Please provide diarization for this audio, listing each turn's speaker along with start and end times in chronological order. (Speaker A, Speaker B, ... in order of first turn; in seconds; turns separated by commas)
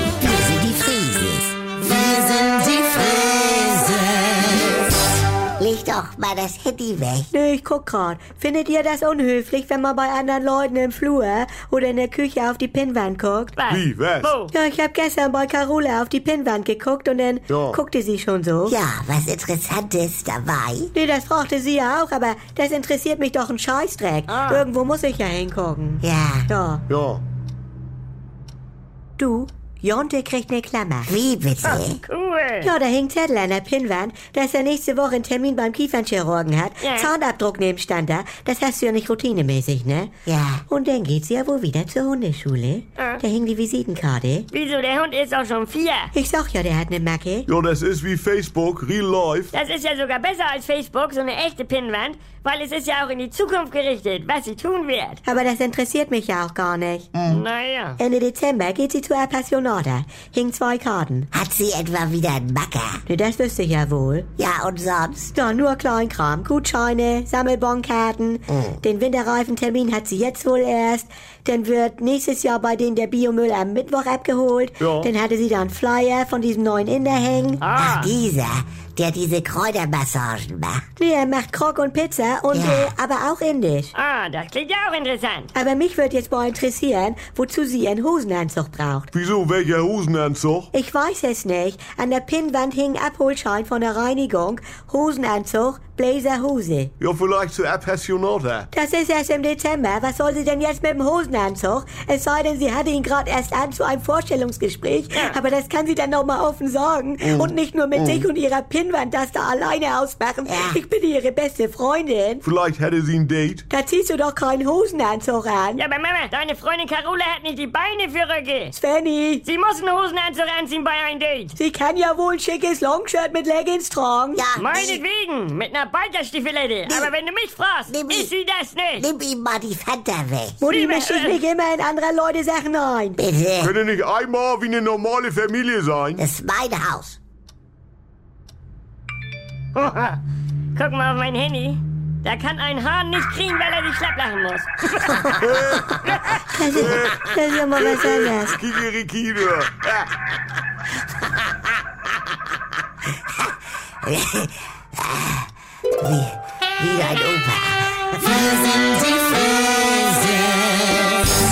Speaker A: 0.2-4.8, Speaker A: 5.6-7.3, Speaker B: 7.3-13.5, Speaker C: 13.6-14.5, Speaker D: 13.7-14.3, Speaker B: 14.5-18.8, Speaker D: 17.5-17.8, Speaker A: 18.7-20.9, Speaker B: 20.9-26.8, Speaker C: 24.3-24.7, Speaker A: 26.0-26.5, Speaker D: 26.9-27.2, Speaker B: 29.2-31.1, Speaker A: 31.1-32.0, Speaker C: 31.6-32.7, Speaker B: 32.6-40.1, Speaker C: 36.8-37.1, Speaker A: 40.2-40.6, Speaker B: 40.7-44.5, Speaker C: 44.5-46.1, Speaker B: 46.1-47.5, Speaker D: 47.5-49.5, Speaker C: 49.5-55.2, Speaker B: 55.2-57.1, Speaker A: 57.1-57.4, Speaker C: 57.3-58.0, Speaker B: 58.0-61.3, Speaker A: 61.3-63.0, Speaker B: 63.0-64.3, Speaker A: 64.4-65.3, Speaker B: 65.3-77.6, Speaker D: 74.8-75.1, Speaker C: 77.6-78.1, Speaker A: 77.8-80.8, Speaker B: 81.0-83.9, Speaker A: 82.5-82.9, Speaker C: 83.9-85.5, Speaker B: 85.5-89.1, Speaker D: 89.1-90.7, Speaker B: 90.7-96.9, Speaker D: 97.0-98.7, Speaker B: 98.7-112.4, Speaker D: 107.2-108.2, Speaker A: 110.5-110.8, Speaker D: 112.4-113.6, Speaker B: 113.7-115.8, Speaker C: 115.8-118.7, Speaker B: 118.7-119.4, Speaker C: 119.4-121.5, Speaker B: 121.6-124.4, Speaker A: 124.3-125.0, Speaker C: 124.5-129.1, Speaker A: 126.8-127.1, Speaker A: 127.9-128.3, Speaker A: 129.0-130.6, Speaker B: 130.6-133.2, Speaker C: 130.7-131.4, Speaker A: 133.2-133.7, Speaker D: 133.6-136.2, Speaker A: 136.2-137.2, Speaker C: 139.8-140.2, Speaker C: 140.8-145.3, Speaker D: 145.2-146.0, Speaker B: 146.5-148.6, Speaker D: 146.7-150.1, Speaker A: 154.0-155.5, Speaker A: 156.0-160.5